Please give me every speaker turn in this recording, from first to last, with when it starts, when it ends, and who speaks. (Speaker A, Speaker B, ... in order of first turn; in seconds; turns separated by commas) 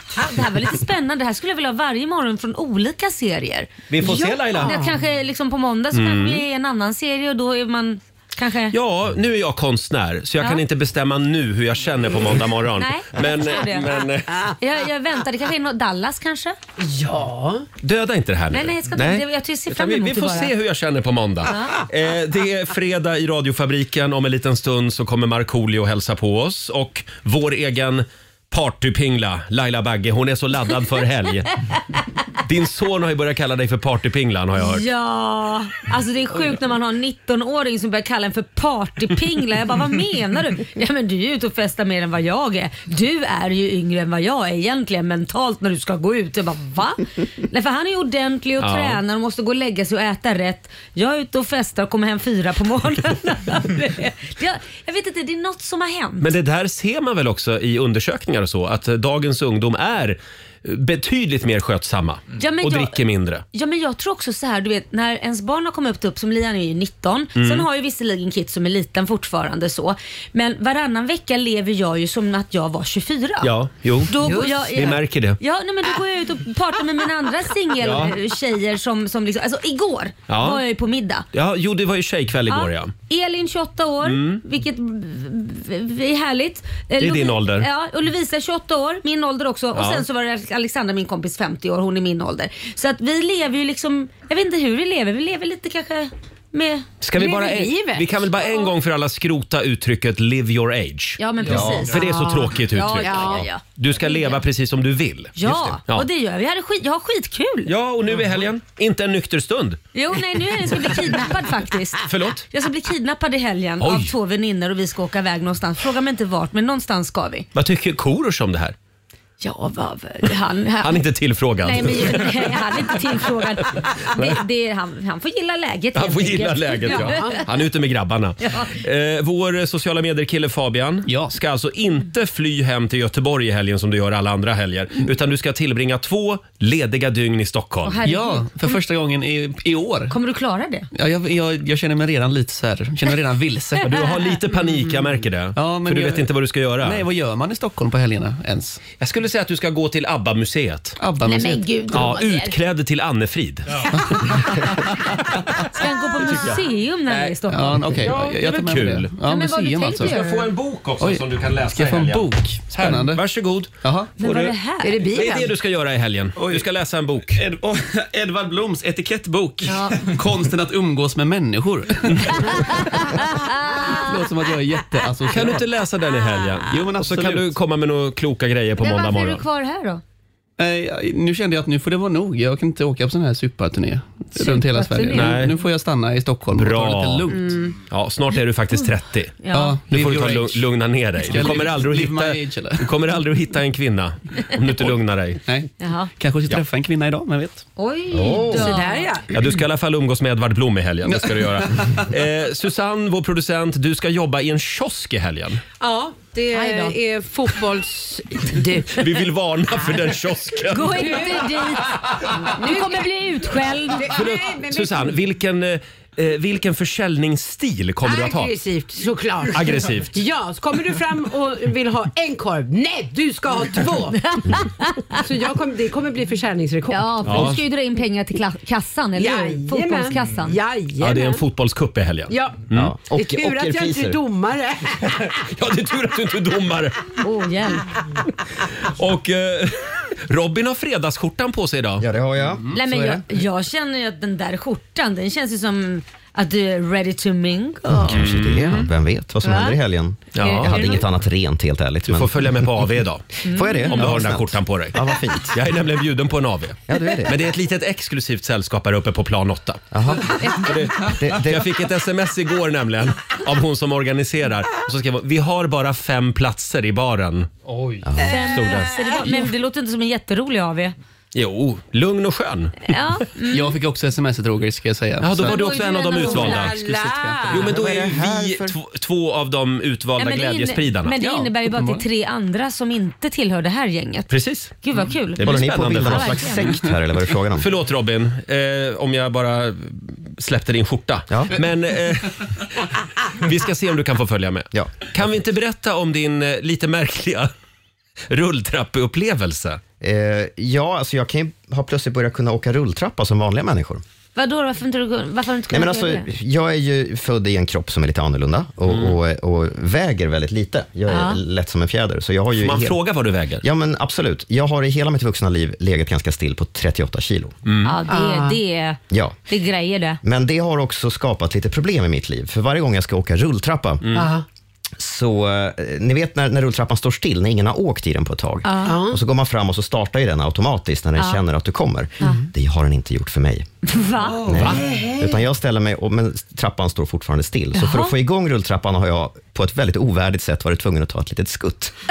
Speaker A: 0.1-3.7, Speaker B: 3.9-4.8, Speaker C: 4.0-5.0, Speaker A: 4.6-8.8, Speaker B: 5.9-6.4, Speaker B: 8.7-14.5, Speaker A: 12.8-13.9, Speaker A: 14.6-16.6, Speaker C: 16.8-17.6, Speaker B: 17.8-31.5, Speaker A: 18.5-20.5, Speaker A: 21.5-21.7, Speaker B: 32.4-34.9, Speaker A: 34.6-56.3, Speaker B: 48.6-49.0, Speaker B: 56.2-63.4, Speaker A: 62.4-63.0, Speaker A: 63.5-73.5, Speaker B: 67.3-67.7, Speaker B: 73.4-75.4, Speaker A: 74.1-81.2, Speaker C: 74.2-74.7, Speaker B: 77.8-78.1, Speaker B: 80.3-80.6, Speaker B: 81.3-82.9, Speaker A: 82.5-96.9, Speaker B: 84.0-84.4, Speaker B: 87.0-87.7, Speaker B: 89.7-90.0, Speaker B: 97.0-106.1, Speaker C: 97.2-98.3, Speaker A: 101.2-104.4, Speaker D: 101.5-101.9, Speaker C: 103.0-103.4, Speaker A: 105.3-107.7, Speaker B: 107.7-109.8, Speaker A: 109.9-117.5, Speaker B: 112.1-112.5, Speaker B: 113.8-114.1, Speaker B: 117.5-118.7, Speaker A: 119.4-121.0, Speaker B: 120.8-122.6, Speaker A: 121.6-127.4, Speaker B: 125.9-138.0, Speaker C: 126.8-127.4, Speaker A: 128.4-128.7, Speaker E: 131.1-131.3, Speaker A: 137.8-138.8, Speaker E: 138.0-140.1, Speaker A: 140.1-140.9, Speaker E: 140.9-144.0, Speaker B: 143.8-147.0, Speaker E: 145.5-146.3, Speaker E: 146.8-148.8, Speaker B: 149.0-151.0, Speaker E: 151.0-151.6, Speaker A: 151.2-152.6, Speaker B: 151.9-153.8, Speaker E: 153.9-154.3, Speaker A: 155.7-158.3, Speaker B: 156.2-157.3, Speaker E: 157.5-160.2, Speaker B: 157.9-159.1, Speaker A: 159.2-160.5, Speaker B: 160.0-164.4, Speaker E: 161.0-163.2, Speaker E: 163.8-164.5, Speaker A: 164.2-165.2, Speaker C: 164.8-165.5, Speaker B: 165.1-167.4, Speaker E: 166.3-166.7, Speaker E: 167.3-175.6, Speaker A: 169.7-170.0, Speaker A: 172.5-174.1, Speaker B: 175.3-179.4, Speaker E: 176.7-177.5, Speaker A: 178.8-180.0, Speaker E: 180.6-187.7, Speaker A: 184.3-185.4, Speaker B: 185.1-185.5, Speaker B: 186.5-187.3, Speaker B: 187.9-189.4, Speaker A: 189.4-189.8, Speaker E: 189.5-190.6, Speaker B: 189.9-195.4, Speaker E: 191.2-192.9, Speaker E: 195.4-197.6, Speaker A: 195.8-196.1, Speaker A: 197.8-199.1, Speaker D: 198.1-198.8, Speaker C: 198.3-199.3, Speaker B: 199.3-205.6, Speaker E: 201.1-202.0, Speaker C: 205.8-209.1, Speaker A: 206.5-206.9, Speaker B: 208.9-211.2, Speaker A: 210.7-214.1, Speaker C: 210.9-213.1, Speaker C: 213.8-215.2, Speaker B: 214.1-218.5, Speaker C: 218.0-224.4, Speaker B: 219.5-220.2, Speaker A: 224.2-225.2, Speaker C: 225.2-227.5, Speaker A: 226.9-230.6, Speaker B: 227.2-227.6, Speaker C: 229.2-231.4, Speaker B: 231.0-232.9, Speaker C: 232.3-235.3, Speaker D: 232.7-234.2, Speaker B: 235.4-237.0, Speaker A: 237.2-237.9, Speaker B: 238.8-242.1, Speaker D: 242.0-243.2, Speaker A: 242.7-248.2, Speaker D: 247.9-252.7, Speaker B: 248.1-248.9, Speaker A: 249.4-249.8, Speaker B: 250.3-250.9, Speaker A: 250.3-251.0, Speaker B: 252.1-253.3, Speaker A: 253.4-254.0, Speaker D: 253.4-255.6, Speaker B: 253.9-259.9, Speaker D: 256.9-257.4, Speaker D: 259.9-261.7, Speaker A: 260.4-260.7, Speaker B: 260.5-267.5, Speaker D: 268.0-268.4, Speaker A: 268.2-270.9, Speaker B: 268.4-269.3, Speaker C: 268.7-269.1, Speaker B: 271.3-272.9, Speaker A: 272.8-273.7, Speaker E: 273.5-275.7, Speaker B: 275.2-276.8, Speaker A: 275.4-276.7, Speaker C: 276.2-277.6, Speaker E: 276.3-277.8, Speaker B: 277.5-281.2, Speaker D: 277.6-278.8, Speaker A: 280.2-284.3, Speaker E: 281.2-282.0, Speaker B: 284.3-284.7, Speaker A: 284.8-286.7, Speaker B: 285.4-286.6, Speaker D: 285.4-287.7, Speaker B: 287.5-292.4, Speaker B: 293.3-297.5, Speaker B: 298.3-299.8, Speaker D: 300.0-304.0, Speaker A: 304.4-306.2, Speaker D: 305.7-313.0, Speaker B: 308.9-309.1, Speaker A: 311.1-311.4, Speaker B: 312.6-313.6, Speaker D: 313.6-317.5, Speaker B: 317.6-318.0, Speaker A: 317.8-320.2, Speaker C: 318.1-318.6, Speaker D: 319.1-319.4, Speaker D: 320.2-324.0, Speaker B: 324.0-324.3, Speaker C: 324.1-324.4, Speaker D: 325.0-333.6, Speaker A: 328.6-329.0, Speaker C: 328.8-329.2, Speaker A: 333.9-334.5, Speaker C: 334.2-335.4, Speaker D: 334.4-341.9, Speaker A: 337.7-338.1